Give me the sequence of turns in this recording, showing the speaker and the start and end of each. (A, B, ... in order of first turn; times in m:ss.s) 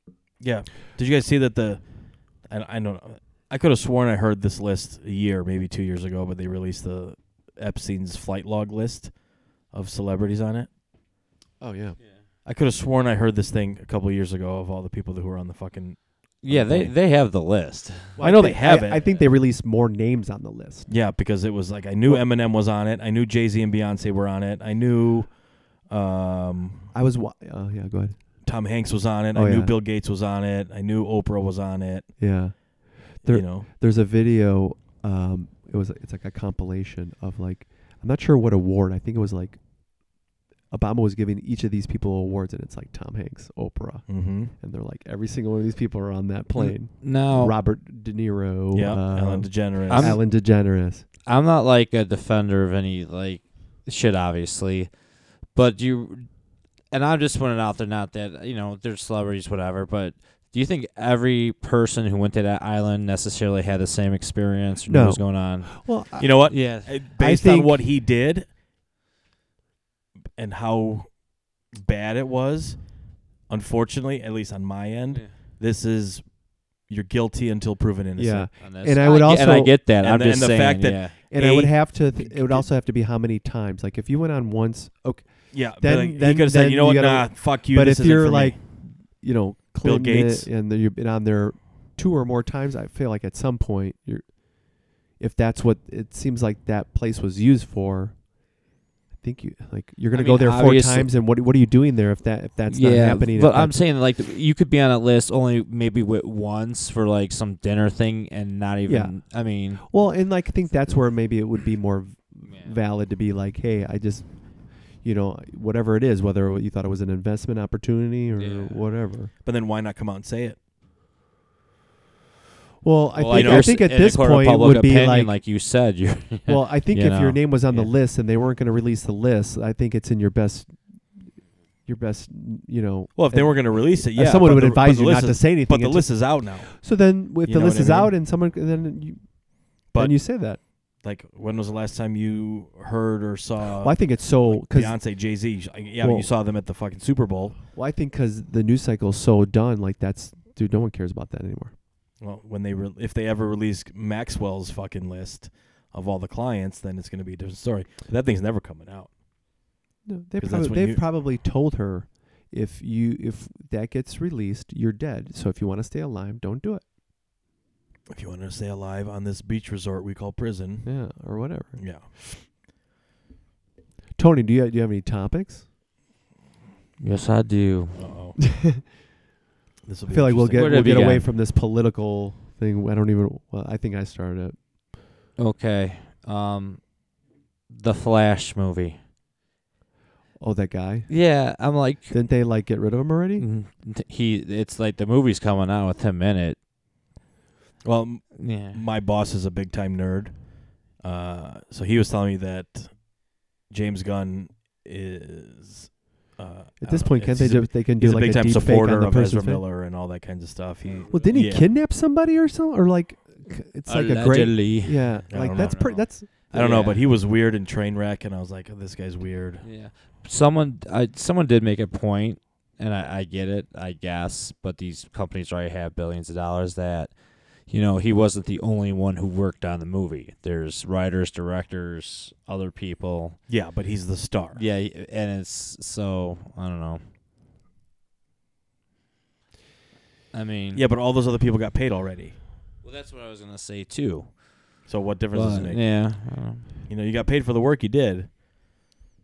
0:00.4-0:10.7 A
0:11.6-0:12.0 B
0:12.4-0:16.9 A
0:16.4-0:18.2 C
0:18.2-0:20.9 B
0:18.2-0:19.1 A
0:20.9-0:26.9 A
0:26.9-0:28.4 B
0:28.4-0:32.3 A
0:29.3-0:29.8 B
0:32.2-0:51.1 B
0:33.2-0:33.7 A
0:44.1-0:44.5 A
0:46.6-0:47.6 C
0:48.7-0:50.2 A
0:49.9-0:50.2 C
0:51.2-1:07.0 C
1:04.9-1:07.8 B
1:06.2-1:08.5 A
1:10.4-1:22.7 A
1:15.1-1:15.4 C
1:18.2-1:19.8 B
1:18.6-1:21.2 C
1:21.3-1:38.5 B
1:25.5-1:28.6 A
1:29.8-1:30.5 A
1:39.2-1:43.8 B
1:40.1-1:41.1 C
1:42.7-1:49.9 C
1:48.9-1:59.3 B
1:52.5-1:52.8 C
1:58.4-1:58.9 C
1:59.4-2:00.6 A
2:02.8-2:05.4 B
2:03.1-2:08.0 C
2:03.3-2:03.7 A
2:06.5-2:11.3 B
2:11.8-2:20.6 B
2:13.2-2:18.1 A
2:19.9-2:27.6 A
2:23.8-2:26.3 B
2:27.7-2:31.7 B
2:32.2-2:39.2 A
2:40.0-2:46.8 B
2:40.4-2:41.0 A
2:48.1-2:51.1 A
2:50.8-2:52.0 B
2:51.7-2:52.1 A
2:54.2-2:55.7 B
2:57.0-2:58.0 C
2:58.0-2:58.4 A
2:58.5-2:58.8 B
2:59.9-3:01.2 A
3:00.1-3:04.6 B
3:00.5-3:01.3 C
3:05.4-3:07.1 C
3:07.7-3:09.0 C
3:10.4-3:11.1 B
3:11.1-3:12.2 C
3:12.1-3:13.5 B
3:13.4-3:16.6 C
3:17.8-3:31.7 A
3:18.4-3:18.8 C
3:26.8-3:29.6 B
3:30.8-3:31.4 C
3:31.1-3:36.3 B
3:33.9-3:37.1 C
3:35.3-3:39.7 A
3:39.6-3:53.4 C
3:53.5-3:54.6 A
3:54.6-3:57.0 C
4:00.3-4:00.9 C
4:00.7-4:02.4 A
4:02.8-4:06.7 C
4:04.9-4:08.3 A